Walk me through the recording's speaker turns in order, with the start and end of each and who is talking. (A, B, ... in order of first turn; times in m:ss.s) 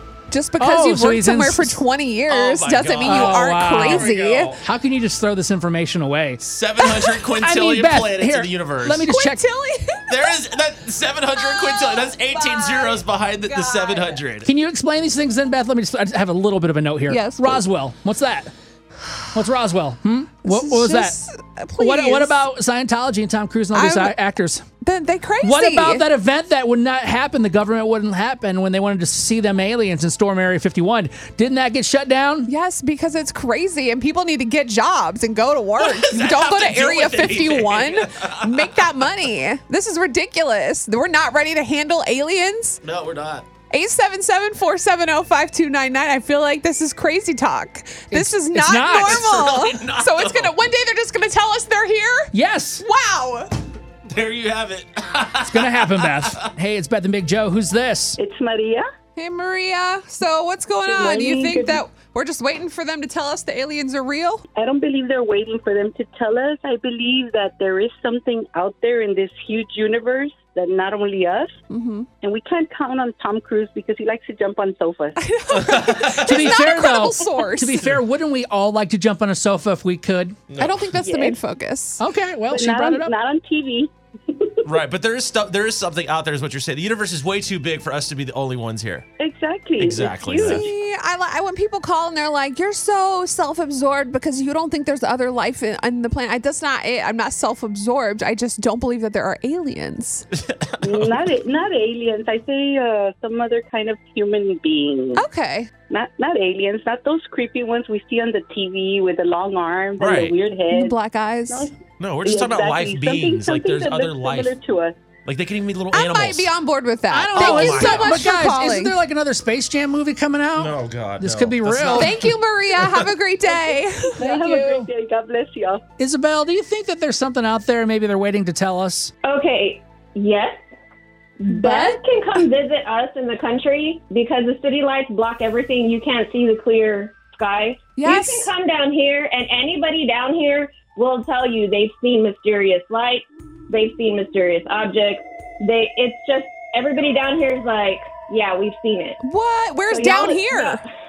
0:00.3-0:04.6 A
0:00.6-0:01.8 B
0:02.3-0:04.6 C
0:03.0-0:04.1 B
0:04.6-0:06.4 B
0:06.4-0:09.1 C
0:07.4-0:09.4 B
0:09.1-0:10.4 A
0:10.1-0:14.5 C
0:11.3-0:14.2 A
0:14.4-0:18.5 B
0:17.1-0:17.6 A
0:19.3-0:21.2 B
0:20.4-0:22.4 A
0:21.8-0:24.6 B
0:23.7-0:24.1 A
0:24.8-0:26.0 A
0:25.4-0:32.5 B
0:32.5-0:42.8 A
0:35.8-0:38.6 C
0:42.8-0:43.4 C
0:43.7-0:53.5 A
0:48.1-0:49.3 B
0:48.8-0:50.5 C
0:52.3-0:52.8 B
0:54.0-0:56.4 C
0:55.4-0:58.2 B
0:58.2-0:58.8 D
0:59.2-1:04.4 A
1:00.8-1:01.8 D
1:04.5-1:11.5 D
1:11.7-1:12.1 A
1:12.2-1:15.2 D
1:15.2-1:17.9 A
1:15.5-1:16.4 C
1:16.1-1:20.4 B
1:20.5-1:20.8 C
1:20.6-1:22.0 A
1:21.0-1:21.4 D
1:22.0-1:23.1 B
1:22.5-1:24.6 D
1:24.6-1:29.0 C
1:29.2-1:30.6 D
1:29.8-1:30.7 C
1:30.3-1:40.3 A
1:40.8-1:45.2 D
1:45.2-1:45.7 A
1:45.9-1:50.9 D
1:50.0-1:50.3 C
1:50.7-1:51.7 A
1:52.0-1:54.5 C
1:52.2-1:55.0 D
1:55.2-1:56.5 C
1:55.9-1:59.0 A
1:57.1-2:02.2 B
1:57.3-1:58.2 C
2:00.6-2:02.3 C
2:01.9-2:04.2 A
2:03.5-2:05.8 D
2:04.2-2:04.9 B
2:06.0-2:09.1 B
2:09.2-2:10.6 E
2:11.4-2:29.2 E
2:11.5-2:12.0 A
2:18.0-2:18.5 A
2:29.2-2:30.8 A
2:29.9-2:30.8 E